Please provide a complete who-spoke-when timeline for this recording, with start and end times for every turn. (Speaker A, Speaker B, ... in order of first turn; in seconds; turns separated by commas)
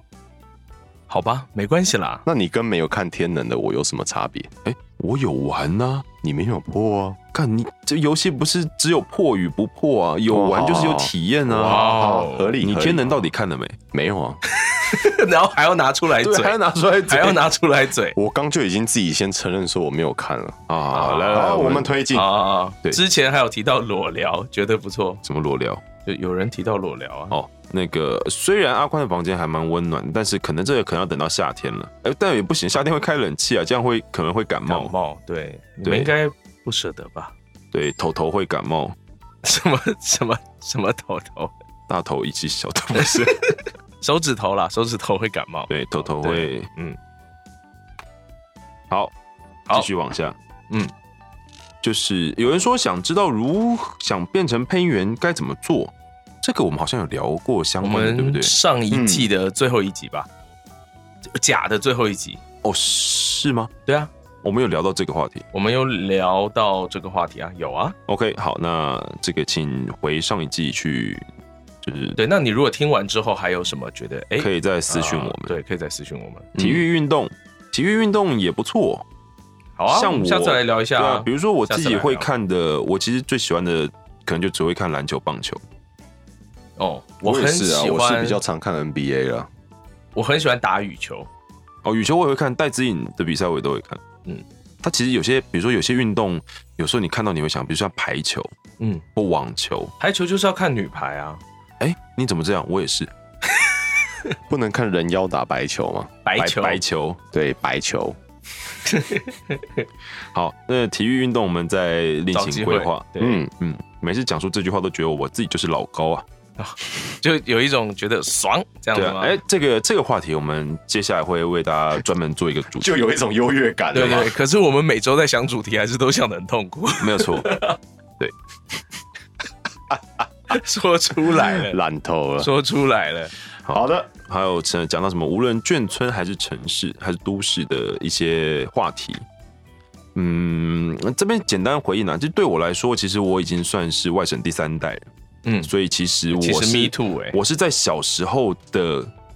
Speaker A: 1.1-2.2, Speaker B: 2.2-4.5, Speaker C: 4.7-6.1, Speaker B: 6.2-7.2, Speaker C: 7.3-11.9, Speaker B: 10.3-13.2, Speaker A: 11.6-12.6, Speaker C: 12.6-13.8, Speaker B: 13.9-14.4, Speaker A: 14.6-16.6, Speaker C: 16.2-17.4, Speaker A: 17.1-18.2, Speaker B: 18.2-22.3, Speaker C: 20.7-21.9, Speaker A: 22.1-25.2, Speaker C: 25.2-25.8, Speaker A: 26.1-27.4, Speaker C: 27.3-34.9, Speaker A: 34.7-37.3, Speaker C: 35.8-36.1, Speaker C: 37.7-39.0, Speaker A: 39.4-41.5, Speaker C: 41.9-43.5, Speaker A: 43.0-47.0, Speaker C: 45.7-46.7, Speaker C: 49.7-50.4, Speaker C: 51.8-58.5, Speaker A: 57.8-60.3, Speaker B: 58.9-59.3, Speaker A: 61.4-62.4, Speaker C: 62.6-63.7, Speaker C: 64.4-65.5, Speaker A: 65.5-68.0, Speaker C: 68.1-71.3, Speaker C: 71.8-72.2, Speaker A: 72.2-76.6, Speaker C: 74.4-75.6, Speaker C: 76.6-79.0, Speaker A: 79.8-82.3, Speaker C: 79.9-85.6, Speaker A: 86.8-88.4, Speaker B: 87.2-89.5, Speaker A: 90.2-91.3, Speaker C: 91.8-94.0, Speaker C: 94.8-98.5, Speaker A: 98.8-99.0, Speaker C: 99.2-99.9, Speaker A: 100.0-101.4, Speaker C: 101.8-103.1, Speaker B: 104.5-106.1, Speaker A: 106.2-106.8, Speaker C: 106.4-107.2, Speaker B: 107.3-108.2, Speaker A: 108.8-109.8, Speaker C: 110.3-116.2, Speaker A: 112.3-113.4, Speaker B: 113.2-113.5, Speaker A: 116.6-119.4, Speaker C: 118.9-123.0, Speaker B: 122.8-124.3, Speaker A: 123.9-127.8, Speaker C: 127.0-127.5, Speaker A: 130.5-131.8, Speaker B: 131.5-132.5, Speaker A: 132.4-133.3, Speaker C: 133.7-139.2, Speaker B: 133.7-134.1, Speaker C: 140.2-145.0, Speaker A: 145.4-145.7, Speaker C: 145.6-149.1, Speaker A: 146.3-147.4